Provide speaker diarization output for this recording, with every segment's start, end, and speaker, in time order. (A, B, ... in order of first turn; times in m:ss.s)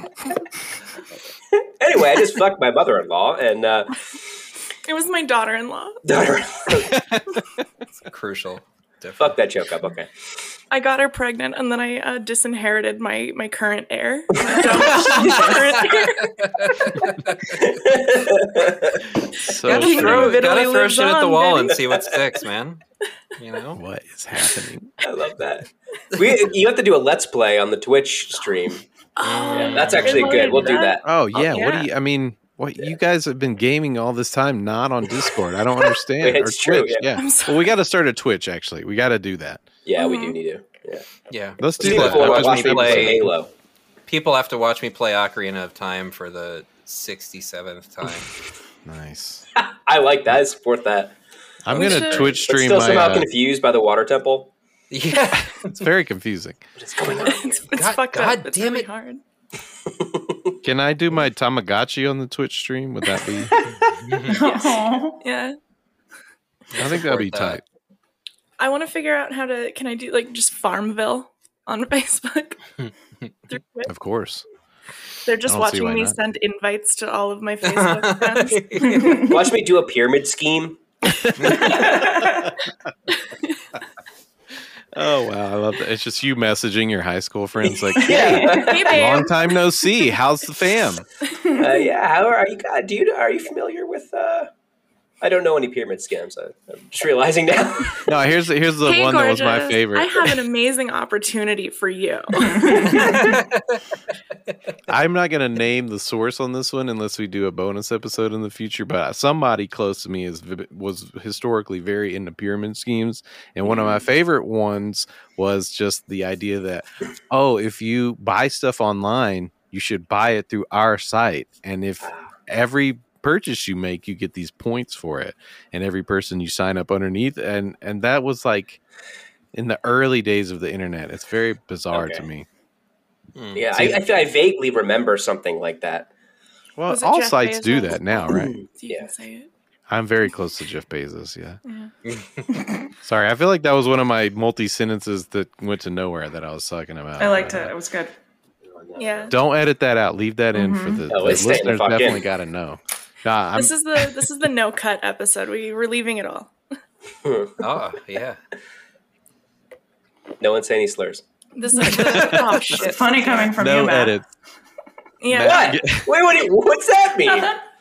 0:01.8-0:04.1 A
0:04.8-0:06.0 B
0:06.0-0:07.0 A
0:08.1-0:09.4 C
0:09.2-0:10.1 A
0:10.7-0:16.4 B
0:14.4-0:15.0 A
0:14.8-0:17.2 C
0:17.5-0:19.1 A
0:19.2-0:20.4 D
0:19.6-0:22.8 C
0:19.6-0:21.8 B
0:23.4-0:23.8 C
0:23.7-0:24.9 D
0:25.0-0:28.8 A
0:29.2-0:31.9 B
0:29.2-0:30.4 C
0:29.5-0:31.0 A
0:31.0-0:39.6 D
0:36.2-0:37.1 A
0:37.1-0:37.7 B
0:39.8-0:41.1 A
0:40.0-0:40.4 B
0:41.3-0:43.3 C
0:41.6-0:43.3 D
0:41.8-0:43.5 A
0:44.1-0:48.3 C
0:48.8-0:49.4 D
0:49.6-0:51.2 A
0:51.6-0:53.3 D
0:51.7-0:52.4 B
0:51.7-0:54.5 A
0:54.9-0:55.9 C
0:55.4-0:56.7 D
0:56.8-0:57.6 A
0:57.2-0:59.2 B
0:57.7-0:58.9 C
0:59.9-1:00.5 A
1:00.6-1:03.5 D
1:03.9-1:04.4 C
1:04.2-1:05.2 E
1:04.4-1:05.6 B
1:06.7-1:07.6 C
1:06.8-1:07.6 D
1:08.6-1:12.8 B
1:13.5-1:13.9 B
1:13.8-1:14.4 D
1:15.2-1:19.3 B
1:15.4-1:16.2 D
1:17.6-1:19.3 C
1:18.9-1:19.3 E
1:19.2-1:20.8 A
1:21.2-1:22.0 D
1:21.4-1:21.9 C
1:21.6-1:22.5 E
1:23.2-1:23.5 B
1:24.9-1:31.0 D
1:27.9-1:28.9 E
1:27.9-1:29.2 A
1:28.5-1:29.5 B
1:31.6-1:34.5 A
1:35.2-1:38.0 A
1:38.0-1:40.3 D
1:38.8-1:43.4 B
1:42.7-1:43.1 E
1:43.1-1:43.8 C
1:44.9-2:08.8 D
2:02.0-2:02.3 A
2:09.5-2:12.4 D
2:11.9-2:12.2 A
2:13.3-2:13.7 C
2:13.5-2:16.1 A
2:13.7-2:14.0 D
2:16.8-2:18.5 D
2:16.9-2:19.5 B
2:18.3-2:19.1 A
2:19.9-2:21.6 D
2:21.6-2:21.9 B
2:22.1-2:22.4 C
2:23.0-2:27.7 D
2:27.2-2:28.1 E
2:28.7-2:29.3 A
2:29.0-2:29.4 B
2:29.3-2:34.1 D
2:30.5-2:31.1 E
2:31.1-2:32.3 A
2:33.5-2:36.5 B
2:37.2-2:37.6 A
2:37.6-2:38.4 C
2:40.4-2:41.2 A
2:41.6-2:43.5 B
2:41.8-2:42.4 C
2:42.0-2:42.6 D
2:42.7-2:44.1 E
2:43.6-2:44.3 D
2:45.2-2:45.8 B
2:45.3-2:46.1 D
2:45.4-2:47.5 A
2:47.2-2:47.6 E